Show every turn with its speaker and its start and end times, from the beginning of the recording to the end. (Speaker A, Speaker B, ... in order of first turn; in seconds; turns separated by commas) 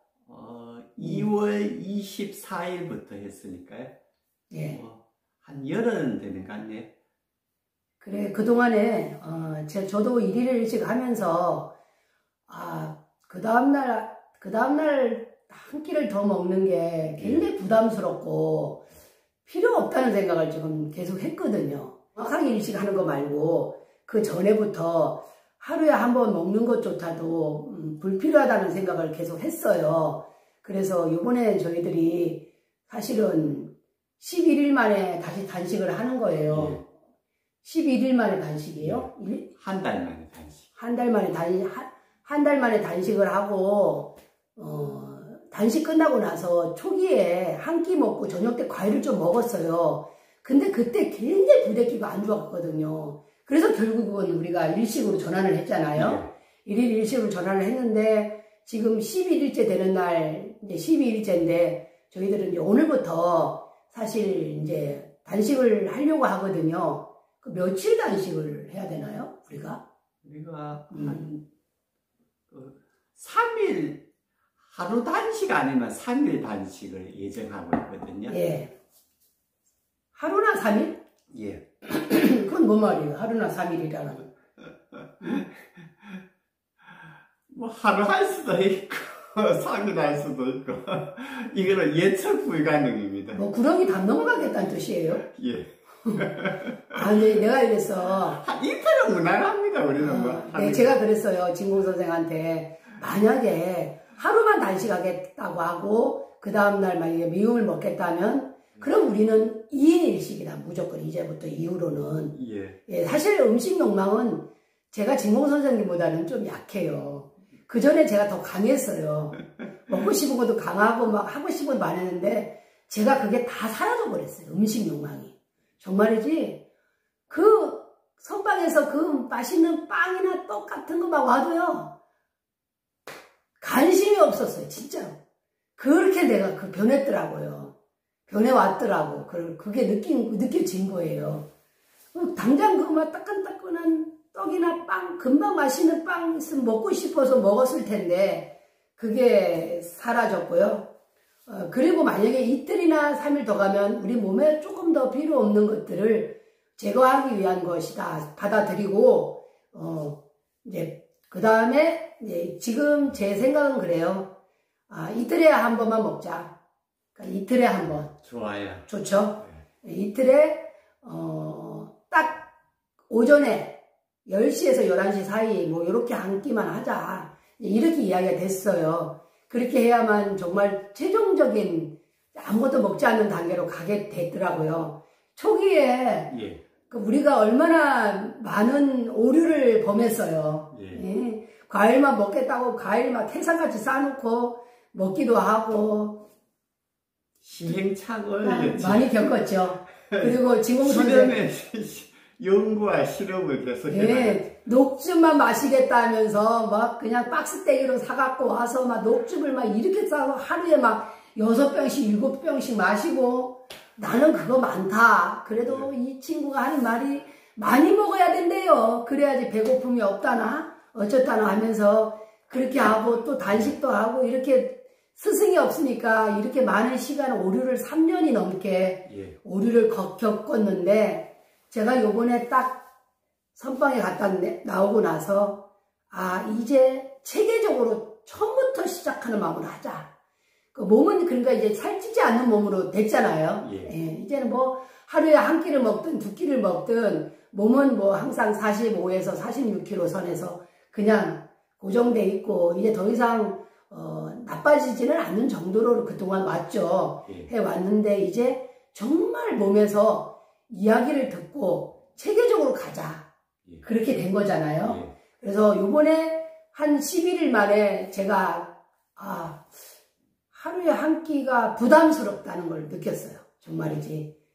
Speaker A: 0.2-3.9, Speaker B: 1.0-1.3, Speaker B: 4.5-4.8, Speaker A: 4.7-6.9, Speaker B: 8.0-11.7, Speaker B: 12.5-18.8, Speaker A: 17.2-17.4, Speaker B: 19.4-36.8, Speaker A: 36.5-36.8, Speaker B: 37.6-39.5, Speaker A: 38.8-40.7, Speaker B: 40.7-69.8, Speaker A: 55.9-56.3, Speaker A: 70.2-71.4, Speaker B: 70.9-71.2, Speaker A: 72.5-74.0, Speaker A: 74.6-78.4, Speaker B: 78.3-78.7, Speaker B: 80.1-81.0, Speaker A: 81.3-81.6, Speaker B: 81.9-84.3, Speaker A: 85.2-85.5, Speaker A: 87.5-93.4, Speaker B: 93.3-95.2, Speaker A: 95.3-97.0, Speaker B: 96.0-96.3, Speaker B: 96.9-98.4, Speaker A: 98.3-101.0, Speaker B: 100.0-126.6, Speaker A: 112.3-112.8, Speaker B: 127.3-131.9, Speaker B: 133.6-135.2, Speaker B: 135.8-137.7, Speaker B: 138.3-141.4, Speaker B: 142.1-150.9, Speaker B: 151.5-164.3, Speaker B: 164.9-166.5, Speaker B: 167.1-168.2, Speaker A: 168.2-168.9, Speaker B: 168.9-172.5, Speaker B: 173.1-186.4, Speaker A: 186.3-186.6, Speaker B: 186.9-196.2, Speaker A: 190.7-191.0, Speaker A: 197.4-199.2, Speaker B: 198.4-201.4, Speaker A: 200.1-204.4, Speaker B: 203.9-232.9, Speaker A: 215.6-215.9, Speaker A: 229.1-229.3, Speaker B: 233.5-240.1, Speaker B: 240.7-263.2, Speaker A: 243.6-243.9, Speaker B: 263.8-269.7, Speaker A: 264.8-265.1, Speaker B: 270.5-274.3